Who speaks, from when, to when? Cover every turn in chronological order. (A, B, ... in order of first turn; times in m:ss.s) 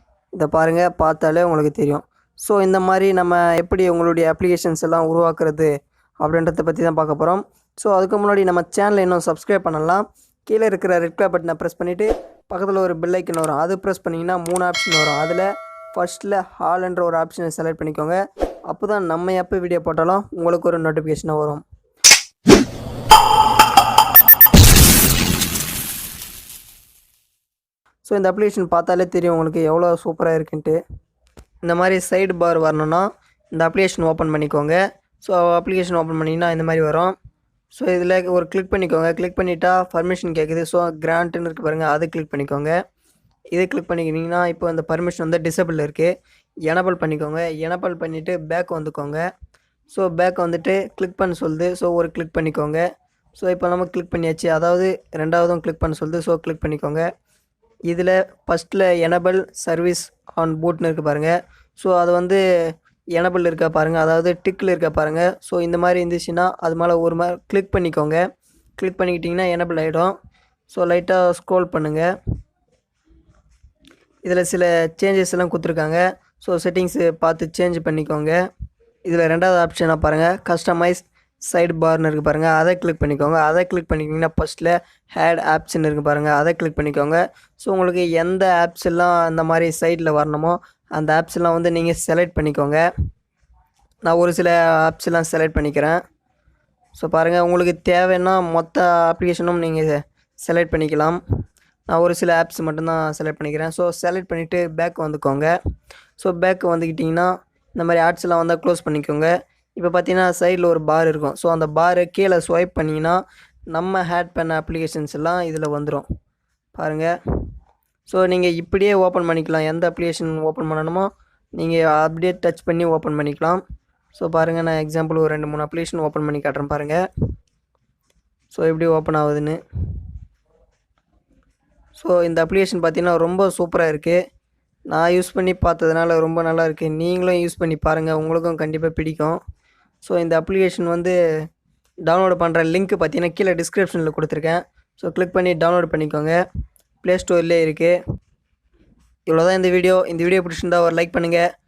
0:00.4-0:18.2 A
0:18.7-0:21.6 A
0:28.0-0:30.8 A
0:31.6-0:37.2 A
0:37.7-0:42.8 A
0:43.5-0:46.1 A
0:46.7-0:49.2 A
0:49.9-0:52.8 A
0:53.4-0:57.1 A
0:57.9-1:02.4 A
1:03.2-1:08.2 A
1:08.8-1:10.2 A
1:10.7-1:12.1 A
1:14.2-1:18.4 A
1:19.1-1:32.8 A
1:34.1-1:36.0 A
1:37.0-1:41.2 A
1:41.9-1:45.5 A
1:46.2-1:53.2 A
1:53.7-1:56.0 A
1:56.8-1:57.1 A
1:58.1-2:03.6 A
2:04.1-2:07.0 A
2:08.5-2:09.6 A
2:12.0-2:14.2 A
2:14.9-2:19.4 A
2:20.0-2:21.2 A
2:22.1-2:26.4 A
2:27.0-2:28.0 A
2:29.3-2:31.4 A